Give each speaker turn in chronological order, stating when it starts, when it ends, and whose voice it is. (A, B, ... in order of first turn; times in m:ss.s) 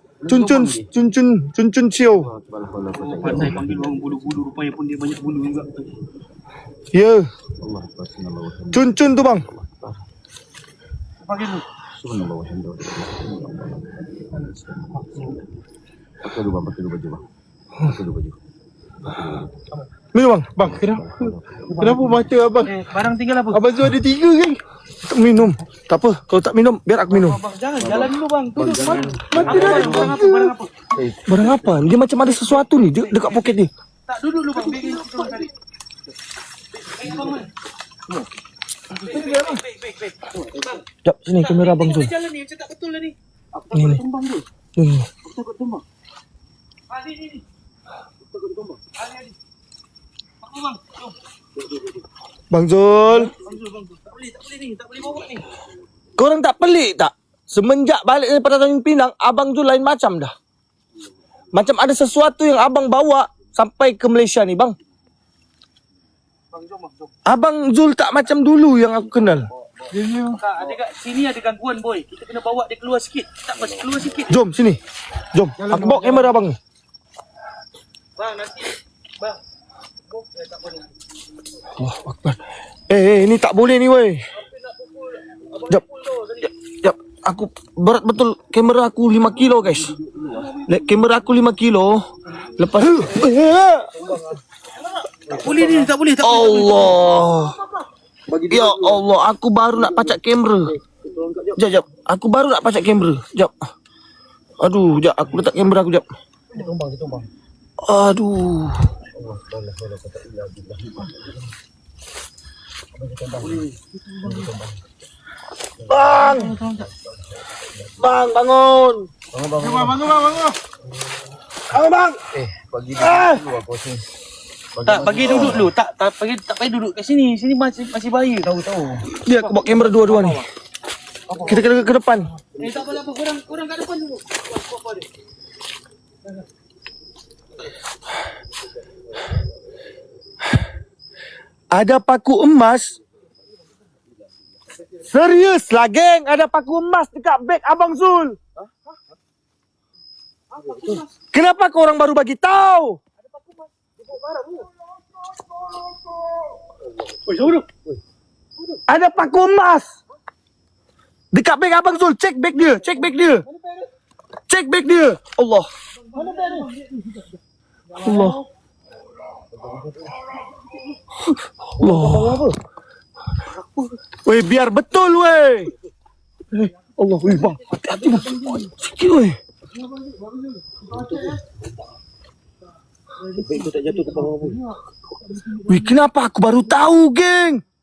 0:00.2-0:00.9 A
0:00.3-0:02.3 B
0:02.1-0:04.4 A
0:02.9-0:05.9 C
0:06.9-0:07.3 B
0:07.6-0:10.0 A
0:08.7-0:09.4 B
0:11.2-0:11.6 C
0:11.9-0:14.9 A
0:16.2-0:17.2 A
0:17.8-0:18.4 A
0:19.0-0:19.5 A
0:20.1-0:20.5 B
0:20.6-0:22.7 D
0:20.6-0:22.2 A
0:22.6-0:23.6 C
0:23.5-0:24.6 D
0:25.0-0:27.4 B
0:27.1-0:30.7 C
0:27.8-0:30.0 A
0:29.3-0:30.3 D
0:29.5-0:30.5 B
0:30.9-0:31.8 A
0:31.2-0:33.7 B
0:32.2-0:35.5 C
0:34.6-0:35.3 D
0:36.8-0:37.5 C
0:38.9-0:40.8 C
0:39.1-0:39.6 D
0:41.0-0:42.1 B
0:41.4-0:44.4 C
0:43.7-0:44.0 B
0:44.8-0:45.1 B
0:45.2-0:45.8 C
0:46.9-0:47.4 C
0:48.3-0:48.8 A
0:48.9-0:49.3 C
0:50.4-0:51.1 C
0:52.5-0:53.3 B
0:53.2-0:55.4 C
0:56.2-1:00.3 B
1:01.5-1:04.7 B
1:06.5-1:07.1 C
1:07.2-1:09.5 B
1:09.4-1:09.9 A
1:09.9-1:10.4 D
1:10.3-1:14.4 C
1:13.6-1:14.2 A
1:14.3-1:14.8 B
1:15.3-1:16.6 B
1:15.6-1:16.3 D
1:18.2-1:19.4 C
1:20.1-1:20.9 C
1:21.7-1:22.4 B
1:22.9-1:24.2 B
1:24.4-1:26.5 C
1:26.4-1:29.9 B
1:29.3-1:30.6 A
1:30.6-1:33.9 B
1:35.0-1:35.6 D
1:35.3-1:35.9 A
1:35.3-1:37.1 C
1:36.2-1:37.5 B
1:38.3-1:39.0 A
1:38.5-1:40.7 B
1:39.8-1:40.2 A
1:40.8-1:41.8 A
1:41.6-1:43.5 B
1:44.6-1:46.0 B
1:46.5-1:47.3 A
1:47.8-1:48.9 B
1:49.1-1:51.4 A
1:52.9-1:54.8 A
1:53.4-1:54.2 C
1:55.8-1:58.2 A
1:55.8-1:56.5 B
1:56.1-1:56.9 C
1:58.0-1:59.1 B
1:59.3-2:00.3 A
1:59.6-2:00.6 D
2:01.7-2:02.2 B
2:02.3-2:04.0 A
2:03.0-2:03.4 B
2:04.7-2:05.7 A
2:04.8-2:08.5 C
2:08.4-2:09.1 A
2:09.2-2:10.4 B
2:09.3-2:10.4 C
2:11.3-2:11.5 C
2:11.4-2:12.3 B
2:12.6-2:15.0 C
2:21.7-2:23.0 B
2:25.0-2:28.4 B
2:30.5-2:31.1 C
2:31.3-2:33.0 B
2:33.2-2:34.3 C
2:38.9-2:40.0 B
2:41.3-2:43.4 B
2:43.5-2:43.8 C
2:44.5-2:45.7 B
2:46.0-2:47.4 C
2:46.1-2:46.7 D
2:47.9-2:48.4 C
2:48.0-2:48.4 B
2:49.5-2:50.2 A
2:51.2-2:52.5 B
2:54.2-2:55.7 B
2:56.5-2:59.4 B
2:57.4-2:58.7 C
2:59.8-3:01.4 D
3:03.3-3:04.6 A
3:03.4-3:04.6 C
3:05.3-3:05.8 C
3:05.6-3:07.6 B